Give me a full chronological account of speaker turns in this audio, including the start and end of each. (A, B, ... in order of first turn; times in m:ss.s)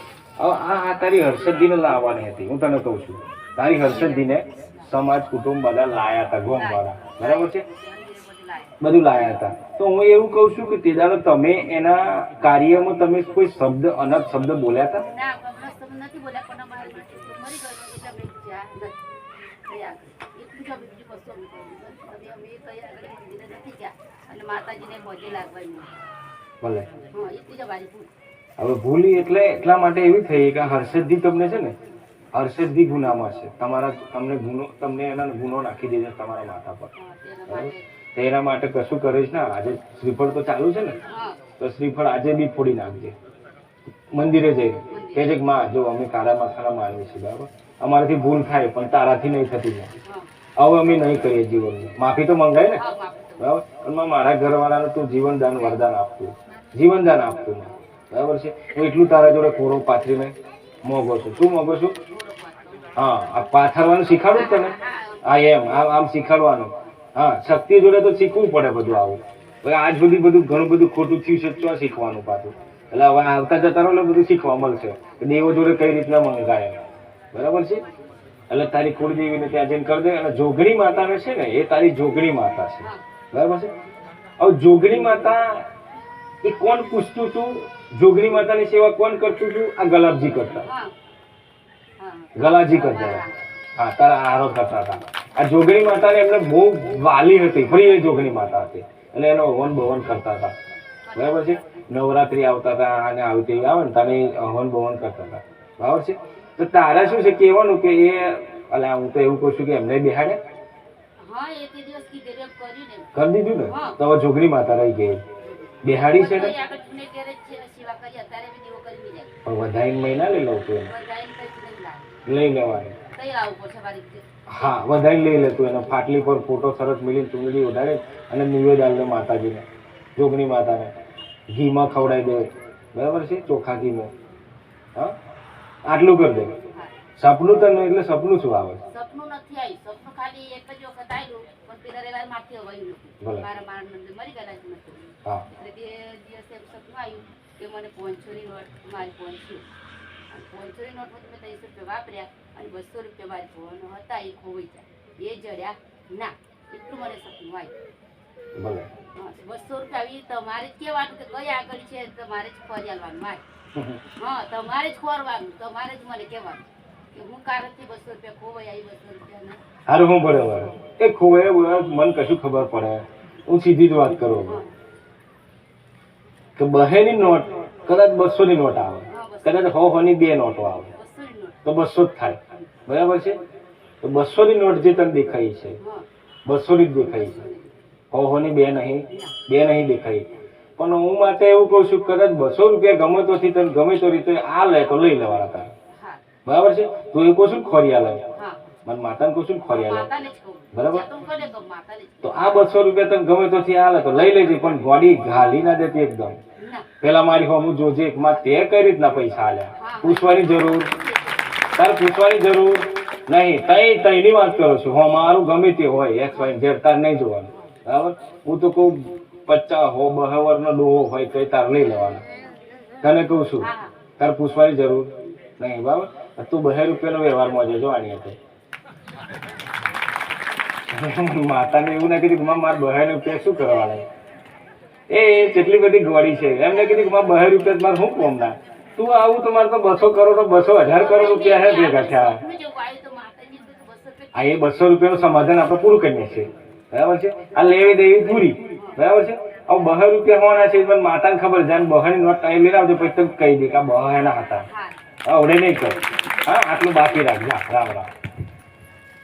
0:00.4-0:07.6 A
0:03.8-0:04.3 B
0:06.5-0:08.8 B
0:08.8-0:15.0 A
0:15.0-0:19.0 B
0:19.6-0:26.0 B
0:26.6-0:26.9 A
0:27.1-0:28.1 B
0:28.6-0:31.7 A
0:32.3-0:36.9 A
0:36.9-0:37.8 B
0:37.5-0:41.0 A
0:41.0-0:41.4 B
0:41.6-0:43.2 A
0:44.1-0:49.9 A
0:44.9-0:45.4 B
0:50.0-0:50.3 B
0:50.6-0:52.8 A
0:52.7-0:53.5 B
0:53.4-1:02.0 A
1:01.9-1:03.1 B
1:02.9-1:17.8 A
1:04.0-1:05.9 B
1:14.0-1:15.6 B
1:18.5-1:23.7 A
1:24.4-1:25.6 A
1:26.4-1:30.7 A
1:30.6-1:30.9 B
1:32.0-1:33.4 B
1:32.4-1:33.2 A
1:33.8-1:40.5 A
1:41.0-1:41.9 B
1:41.1-1:50.4 A
1:51.2-1:54.0 B
1:53.1-1:55.2 A
1:55.4-1:59.4 B
1:55.8-1:56.5 A
1:59.4-2:00.9 A
2:00.8-2:02.2 B
2:02.2-2:03.0 A
2:03.1-2:04.4 B
2:04.5-2:09.6 A
2:10.2-2:10.9 A
2:11.5-2:14.1 A
2:15.8-2:16.5 A
2:16.7-2:17.0 B
2:17.2-2:18.8 A
2:18.9-2:29.7 B
2:30.3-2:37.7 B
2:38.6-2:38.9 A
2:39.1-2:43.4 B
2:43.7-2:44.0 A
2:44.2-2:49.6 B
2:49.8-2:54.6 A
2:54.4-2:54.7 B
2:56.6-3:00.9 A
2:59.1-2:59.9 B
3:00.9-3:01.6 B
3:01.6-3:03.4 A
3:04.0-3:05.8 A
3:05.8-3:06.0 B
3:06.4-3:07.4 A
3:06.9-3:07.7 B
3:08.1-3:15.7 A
3:09.1-3:09.4 B
3:15.9-3:16.2 B
3:16.4-3:18.2 A
3:18.3-3:18.8 B
3:18.8-3:20.1 A
3:19.7-3:22.7 B
3:20.7-3:21.0 A
3:22.2-3:26.4 A
3:26.6-3:26.9 B
3:27.0-3:30.9 A
3:29.7-3:31.6 B
3:31.8-3:42.2 A
3:43.0-3:48.4 A
3:43.6-3:44.0 B
3:50.9-3:54.1 A
3:55.1-4:02.4 A
3:56.7-3:58.5 B
4:00.6-4:05.1 B
4:04.3-4:14.7 A
4:08.5-4:09.0 B
4:14.7-4:15.0 B
4:15.2-4:18.1 A